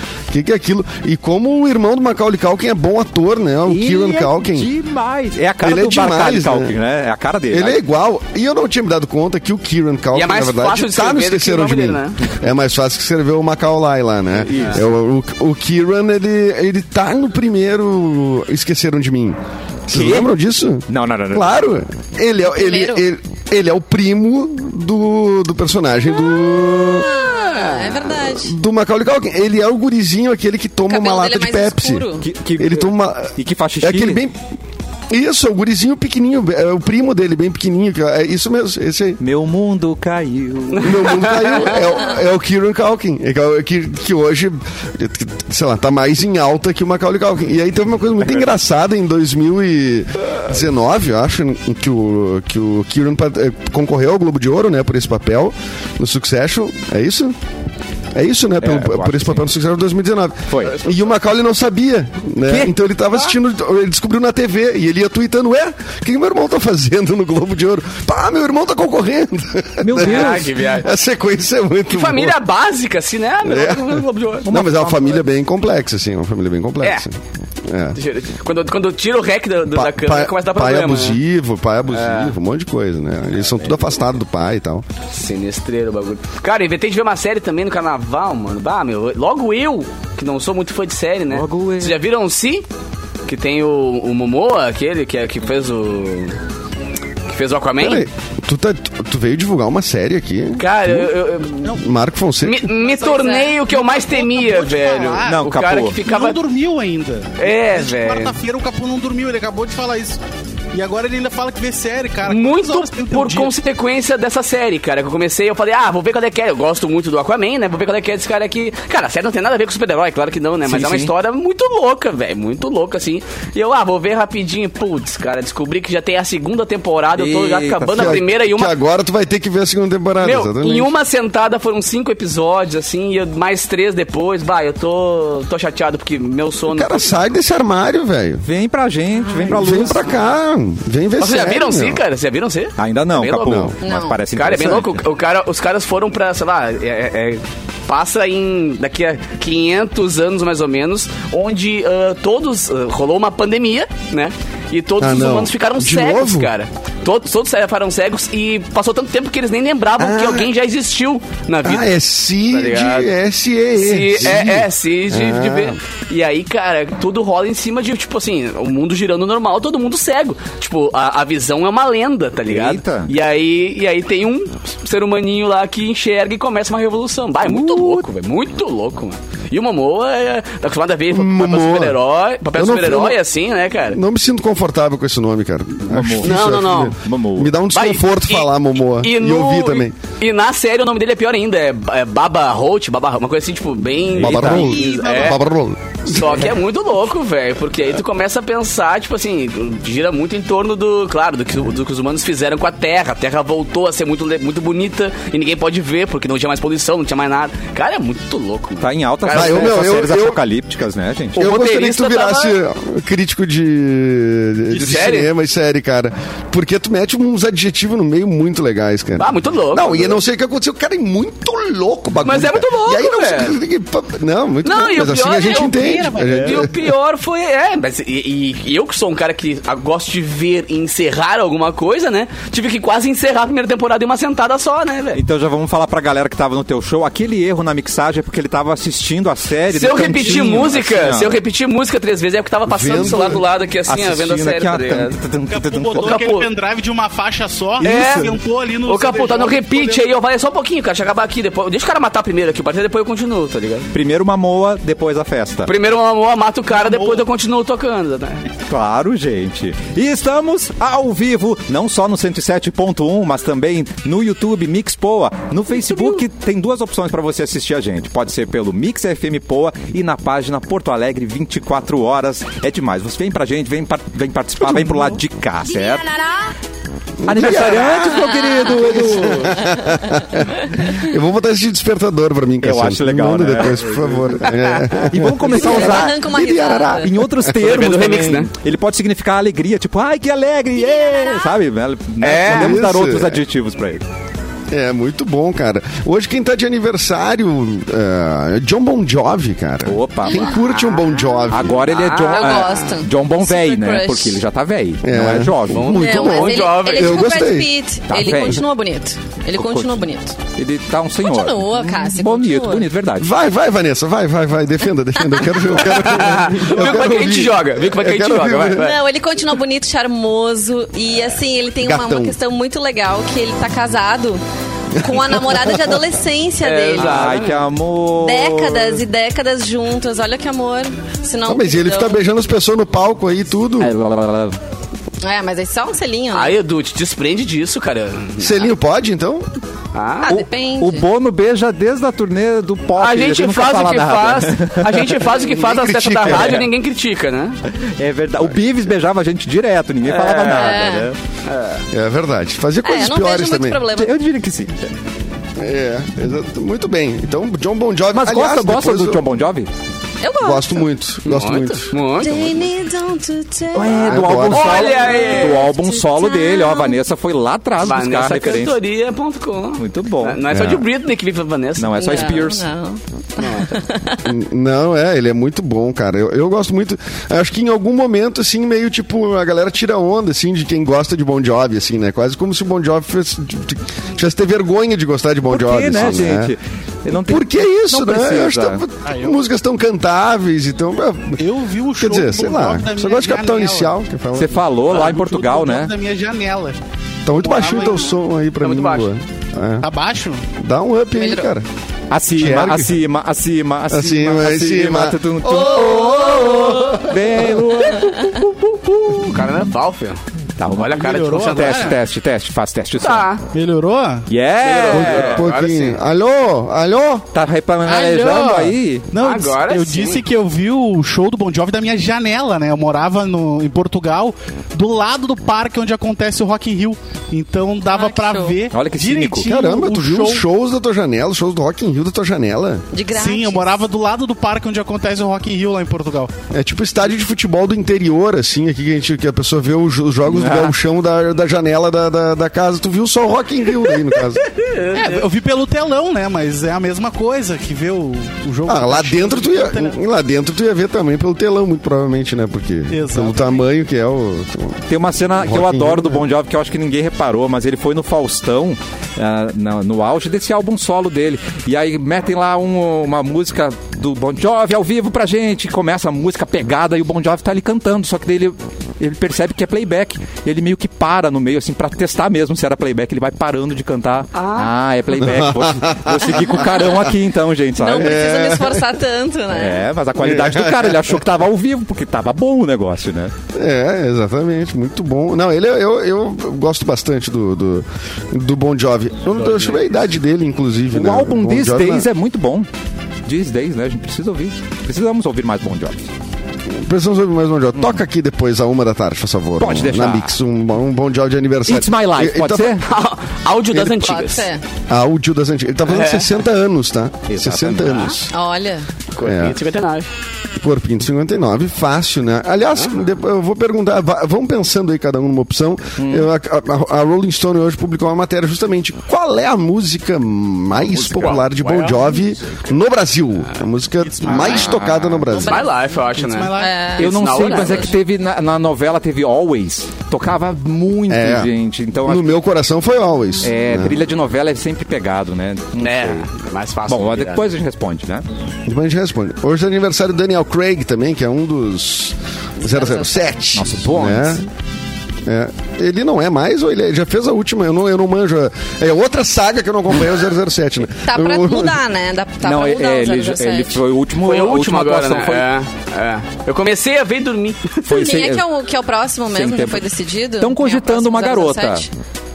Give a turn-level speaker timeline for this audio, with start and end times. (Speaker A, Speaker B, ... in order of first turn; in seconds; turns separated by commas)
Speaker A: 0.3-4.7, Speaker B: 3.7-7.8, Speaker A: 5.6-6.7, Speaker A: 7.5-27.1, Speaker C: 10.1-12.2, Speaker B: 14.4-14.9, Speaker B: 19.9-20.3, Speaker B: 20.9-21.7, Speaker D: 22.5-23.0, Speaker D: 26.7-28.6, Speaker C: 27.2-28.0, Speaker A: 28.3-32.1, Speaker D: 30.9-32.3, Speaker B: 32.2-34.2, Speaker A: 32.6-34.4, Speaker A: 35.1-39.2, Speaker B: 39.2-41.4, Speaker C: 40.8-41.8, Speaker A: 40.8-57.4, Speaker A: 58.1-72.4, Speaker B: 58.6-59.5, Speaker B: 60.5-60.8, Speaker B: 62.5-62.8, Speaker B: 69.8-70.5, Speaker C: 70.0-70.9, Speaker C: 71.9-74.5, Speaker A: 73.4-78.0, Speaker B: 74.4-75.2, Speaker C: 78.0-81.2, Speaker A: 79.7-84.8, Speaker C: 81.9-82.3, Speaker C: 85.1-92.7, Speaker B: 91.3-92.0, Speaker C: 93.3-96.4, Speaker C: 97.3-98.1, Speaker A: 97.8-101.1, Speaker C: 100.6-101.8, Speaker A: 101.8-102.7, Speaker C: 102.4-106.4, Speaker E: 102.8-105.4, Speaker D: 103.0-103.5, Speaker B: 105.3-106.0, Speaker E: 106.0-110.2, Speaker C: 107.4-108.4, Speaker E: 110.7-113.5, Speaker C: 112.2-128.7, Speaker B: 120.7-121.1, Speaker B: 127.2-128.2, Speaker A: 127.9-130.9, Speaker C: 130.2-137.1, Speaker A: 136.7-138.4, Speaker B: 138.4-140.2, Speaker A: 139.4-142.0, Speaker C: 141.2-143.7, Speaker B: 142.8-145.0, Speaker A: 143.5-143.7, Speaker D: 143.8-144.2, Speaker C: 144.3-161.9, Speaker A: 155.0-156.5, Speaker A: 160.0-160.5, Speaker A: 161.6-165.8, Speaker C: 162.5-163.1, Speaker C: 163.8-184.0, Speaker B: 172.5-173.1, Speaker B: 177.5-178.1, Speaker A: 181.1-182.0, Speaker A: 182.6-183.2, Speaker A: 183.9-189.9, Speaker B: 185.9-187.6, Speaker C: 186.2-187.0, Speaker C: 187.7-195.4, Speaker B: 194.1-194.7, Speaker A: 194.2-196.5, Speaker E: 194.4-195.4, Speaker C: 196.1-210.0, Speaker B: 208.8-211.4, Speaker A: 209.3-210.4, Speaker A: 211.4-226.8, Speaker C: 211.4-212.6, Speaker C: 214.7-215.3, Speaker C: 219.2-220.2, Speaker C: 222.2-223.6, Speaker C: 224.6-235.2, Speaker E: 225.3-226.6, Speaker B: 235.1-241.4, Speaker C: 239.7-245.2, Speaker A: 242.7-243.4, Speaker B: 243.9-246.2, Speaker E: 245.5-250.1, Speaker C: 245.9-246.5, Speaker C: 247.8-253.9, Speaker B: 247.8-248.1, Speaker B: 253.9-255.7, Speaker C: 255.7-258.5, Speaker E: 256.7-257.2, Speaker B: 258.7-276.2, Speaker A: 277.2-287.6, Speaker B: 277.3-279.7, Speaker D: 278.4-278.7, Speaker D: 279.6-280.1, Speaker B: 282.6-294.0, Speaker D: 285.5-287.1, Speaker C: 287.6-288.5, Speaker D: 290.8-291.5, Speaker C: 292.2-292.8, Speaker A: 292.4-293.4, Speaker A: 294.7-301.9, Speaker B: 299.9-300.5, Speaker C: 300.6-301.1, Speaker B: 301.5-306.0, Speaker C: 301.7-302.8, Speaker D: 302.1-304.4, Speaker A: 305.0-307.7, Speaker C: 305.7-307.3, Speaker D: 305.9-310.4, Speaker B: 308.1-308.6, Speaker B: 309.5-313.3, Speaker D: 311.2-312.9, Speaker A: 313.2-318.9, Speaker C: 315.8-319.0, Speaker D: 318.7-324.4, Speaker A: 321.8-322.4, Speaker D: 325.0-327.3, Speaker A: 325.0-325.9, Speaker C: 326.6-327.6, Speaker B: 327.0-329.0, Speaker D: 328.2-332.2, Speaker A: 331.5-333.9, Speaker B: 333.8-334.6, Speaker D: 335.2-336.6, Speaker C: 336.3-338.7, Speaker A: 338.4-339.5, Speaker C: 339.9-340.3, Speaker D: 340.2-341.1, Speaker B: 340.3-345.2, Speaker C: 343.0-347.6, Speaker A: 345.5-346.7, Speaker B: 346.3-346.7, Speaker B: 347.7-351.2, Speaker C: 350.1-350.8, Speaker D: 350.4-351.1, Speaker C: 351.5-351.9, Speaker A: 351.9-353.8, Speaker D: 352.8-354.1, Speaker B: 353.9-354.9, Speaker A: 355.6-359.2, Speaker B: 358.1-359.7, Speaker D: 360.2-360.8, Speaker A: 360.4-361.9, Speaker C: 361.2-362.5, Speaker D: 362.2-367.0, Speaker B: 363.7-368.8, Speaker A: 364.0-364.9, Speaker C: 364.5-365.7, Speaker C: 367.8-372.5, Speaker B: 369.8-370.9, Speaker B: 371.8-372.7, Speaker D: 372.0-374.2, Speaker A: 374.2-386.5, Speaker B: 385.5-388.8, Speaker A: 387.1-391.4, Speaker E: 389.0-389.4, Speaker E: 391.4-394.0, Speaker A: 392.0-394.6, Speaker B: 394.4-395.9, Speaker E: 394.9-396.8, Speaker A: 397.2-399.9, Speaker E: 397.3-398.1, Speaker C: 398.6-399.1, Speaker E: 399.8-400.4, Speaker A: 400.6-401.7, Speaker D: 401.2-401.5, Speaker B: 402.1-409.4, Speaker A: 402.3-403.0, Speaker A: 403.9-407.1, Speaker C: 405.8-407.0, Speaker C: 409.1-412.0, Speaker B: 410.6-413.3, Speaker E: 411.0-412.0, Speaker C: 413.0-413.4, Speaker E: 413.5-414.3, Speaker B: 414.3-415.5, Speaker C: 414.6-416.0, Speaker A: 414.9-417.3, Speaker B: 417.3-419.1, Speaker E: 417.9-430.4, Speaker C: 419.2-420.2, Speaker D: 427.9-428.6, Speaker B: 428.7-429.5, Speaker A: 429.4-432.9, Speaker D: 432.9-433.7, Speaker E: 433.1-436.3, Speaker A: 436.5-444.5, Speaker B: 440.3-440.8, Speaker C: 444.6-445.3, Speaker E: 444.9-450.0, Speaker A: 448.7-454.8, Speaker E: 452.9-453.6, Speaker B: 454.9-478.3, Speaker A: 455.4-456.2, Speaker C: 474.3-474.7, Speaker A: 475.2-477.1, Speaker D: 477.8-479.9, Speaker A: 478.0-478.9, Speaker B: 479.5-483.3, Speaker A: 480.2-481.2, Speaker A: 483.5-492.1, Speaker C: 489.4-489.8, Speaker B: 490.9-492.7, Speaker B: 493.3-496.1, Speaker A: 496.7-502.8, Speaker B: 499.6-500.3, Speaker B: 501.7-502.9, Speaker C: 502.8-504.5, Speaker D: 503.9-504.6, Speaker A: 504.9-508.3, Speaker C: 505.9-506.3, Speaker B: 507.3-508.1, Speaker D: 508.3-508.9, Speaker C: 509.1-510.1, Speaker A: 509.2-509.6, Speaker A: 510.6-525.6, Speaker B: 516.0-516.3, Speaker C: 520.9-522.3, Speaker E: 524.0-526.9, Speaker B: 524.4-525.2, Speaker C: 525.4-527.9, Speaker D: 526.6-527.9, Speaker B: 527.0-532.3, Speaker A: 531.1-531.5, Speaker A: 532.1-534.0, Speaker B: 533.4-536.3, Speaker C: 535.8-537.5, Speaker B: 536.9-538.2, Speaker A: 538.7-544.5, Speaker D: 542.6-543.3, Speaker B: 543.5-544.4, Speaker A: 545.2-551.8, Speaker D: 551.0-553.8, Speaker B: 552.4-555.5, Speaker C: 554.2-558.1, Speaker B: 557.9-558.5, Speaker D: 557.9-561.9, Speaker B: 559.3-559.9, Speaker B: 560.4-561.9